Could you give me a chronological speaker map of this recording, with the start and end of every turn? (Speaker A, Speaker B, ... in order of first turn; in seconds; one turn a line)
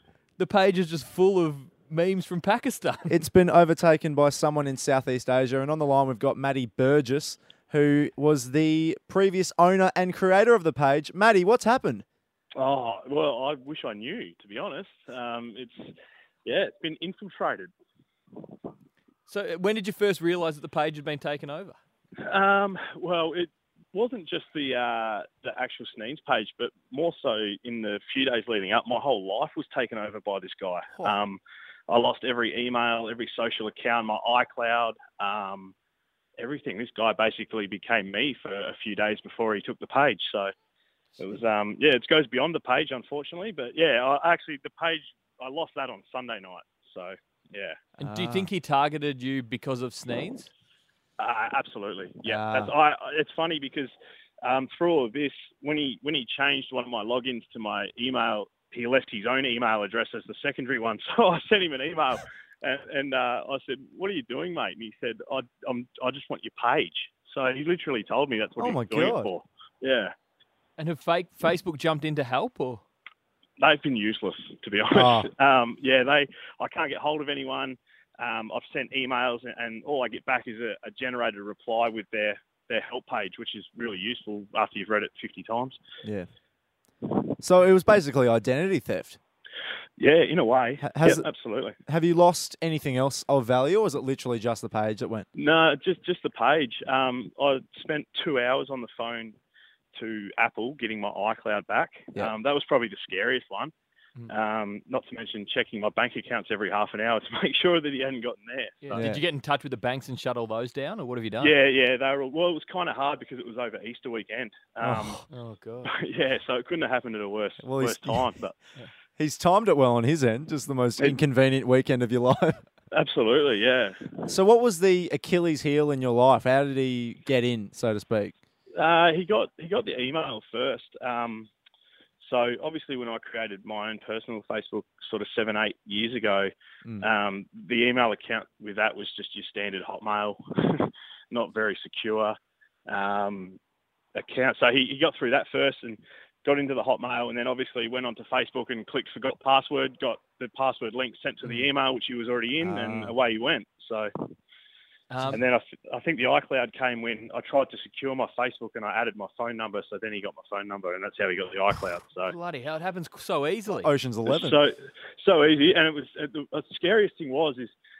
Speaker A: 0.4-3.1
Speaker B: 3.1-12.0
Speaker C: 12.6-15.9
Speaker C: 16.4-17.7
Speaker A: 19.3-21.8
Speaker C: 22.2-35.7
Speaker C: 36.4-40.5
Speaker C: 41.2-47.8
Speaker A: 48.0-50.5
Speaker B: 48.0-48.5
Speaker C: 51.2-70.1
Speaker B: 52.2-52.7
Speaker B: 68.6-69.3
Speaker A: 70.8-72.8
Speaker C: 73.6-85.8
Speaker B: 74.9-75.3
Speaker B: 87.4-89.2
Speaker C: 90.0-91.8
Speaker B: 90.8-91.2
Speaker B: 91.8-95.2
Speaker C: 95.3-99.3
Speaker C: 99.9-103.7
Speaker C: 104.3-109.0
Speaker A: 108.8-111.5
Speaker B: 108.9-109.2
Speaker C: 111.4-115.2
Speaker B: 114.8-115.2
Speaker A: 115.3-115.9
Speaker C: 115.8-118.5
Speaker B: 117.6-118.3
Speaker B: 119.2-122.6
Speaker C: 122.9-124.2
Speaker B: 124.3-128.3
Speaker C: 128.7-131.5
Speaker C: 132.2-142.3
Speaker C: 142.9-143.6
Speaker C: 144.1-154.3
Speaker B: 152.6-153.1
Speaker A: 155.1-155.4
Speaker C: 155.3-162.3
Speaker A: 162.2-163.9
Speaker B: 163.8-164.6
Speaker C: 164.2-167.7